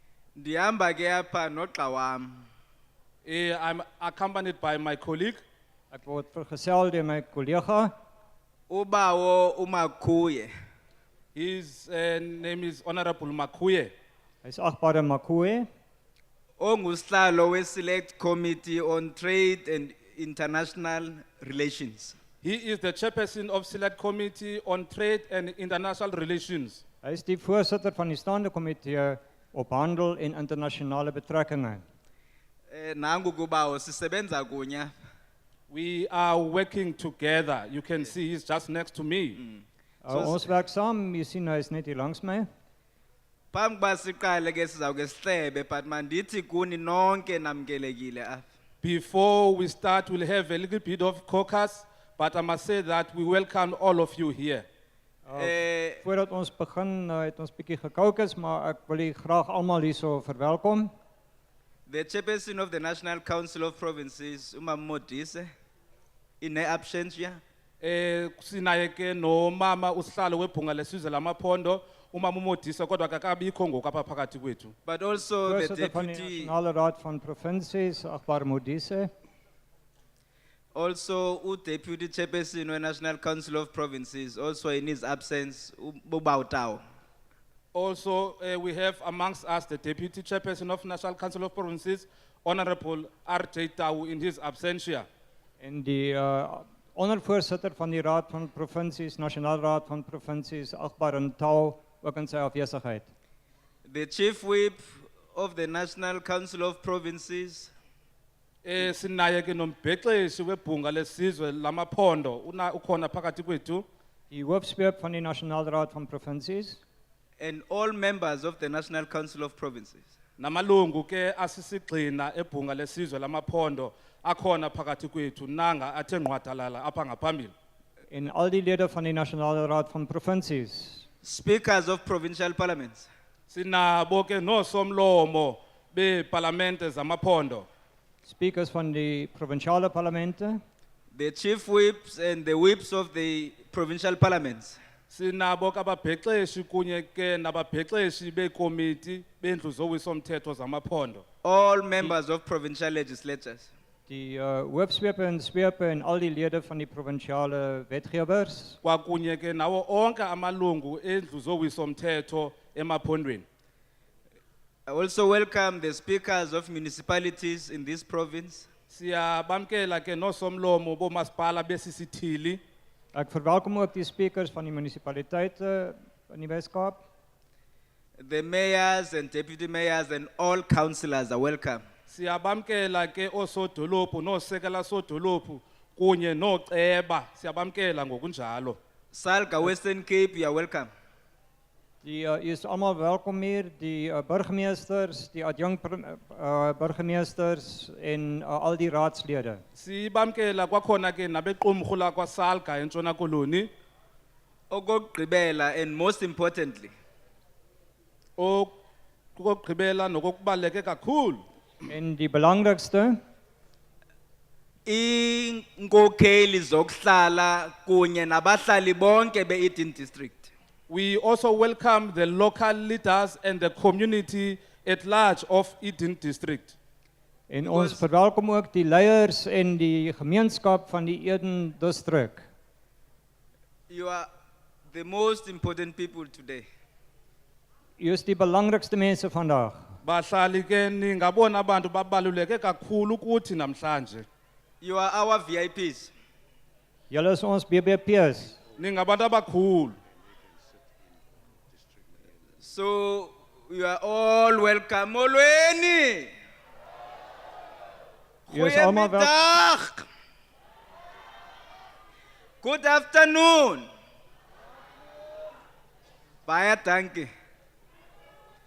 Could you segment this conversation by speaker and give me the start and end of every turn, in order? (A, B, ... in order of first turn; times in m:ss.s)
0:00.4-0:02.4 A
0:03.2-0:05.4 B
0:05.9-0:07.9 C
0:08.7-0:10.5 A
0:11.3-0:13.9 B
0:14.4-0:15.7 C
0:16.6-0:22.2 A
0:22.4-0:26.8 B
0:27.0-0:31.8 C
0:32.7-0:34.9 A
0:35.7-0:39.4 B
0:39.4-0:40.5 A
0:40.0-0:42.4 C
0:43.5-0:48.4 A
0:48.8-0:54.6 B
0:55.3-1:00.9 C
0:55.4-0:56.0 A
1:01.9-1:05.5 A
1:06.4-1:07.4 A
1:07.8-1:14.7 B
1:14.8-1:16.5 A
1:15.4-1:19.1 C
1:20.7-1:26.8 A
1:27.7-1:35.1 B
1:35.6-1:43.1 C
1:43.8-1:47.7 A
1:48.6-1:53.8 B
1:54.3-1:56.8 C
1:57.4-2:00.0 A
2:00.4-2:07.5 B
2:08.1-2:11.0 C
2:11.2-2:13.1 A
2:13.5-2:17.7 B
2:18.2-2:20.6 C
2:21.1-2:24.8 A
2:25.1-2:31.2 B
2:31.4-2:33.7 A
2:34.1-2:38.8 C
2:38.8-2:43.4 B
2:44.9-2:48.7 A
2:48.9-2:52.6 B
2:53.1-2:57.0 C
2:58.2-3:01.8 A
3:02.1-3:08.8 B
3:09.1-3:10.9 A
3:12.0-3:19.6 C
3:19.8-3:23.7 B
3:24.7-3:26.9 A
3:28.4-3:28.7 B
3:29.4-3:31.4 B
3:31.9-3:33.2 C
3:34.8-3:40.5 A
3:40.9-3:46.8 B
3:47.5-3:52.4 C
3:47.6-3:48.0 A
3:53.9-3:54.3 A
3:54.9-3:56.6 A
3:58.0-3:59.8 C
4:00.0-4:04.2 B
4:04.8-4:06.1 A
4:07.1-4:08.6 C
4:08.8-4:10.0 B
4:12.6-4:16.3 A
4:18.5-4:20.0 A
4:18.5-4:19.3 C
4:22.6-4:23.9 A
4:26.4-4:27.3 A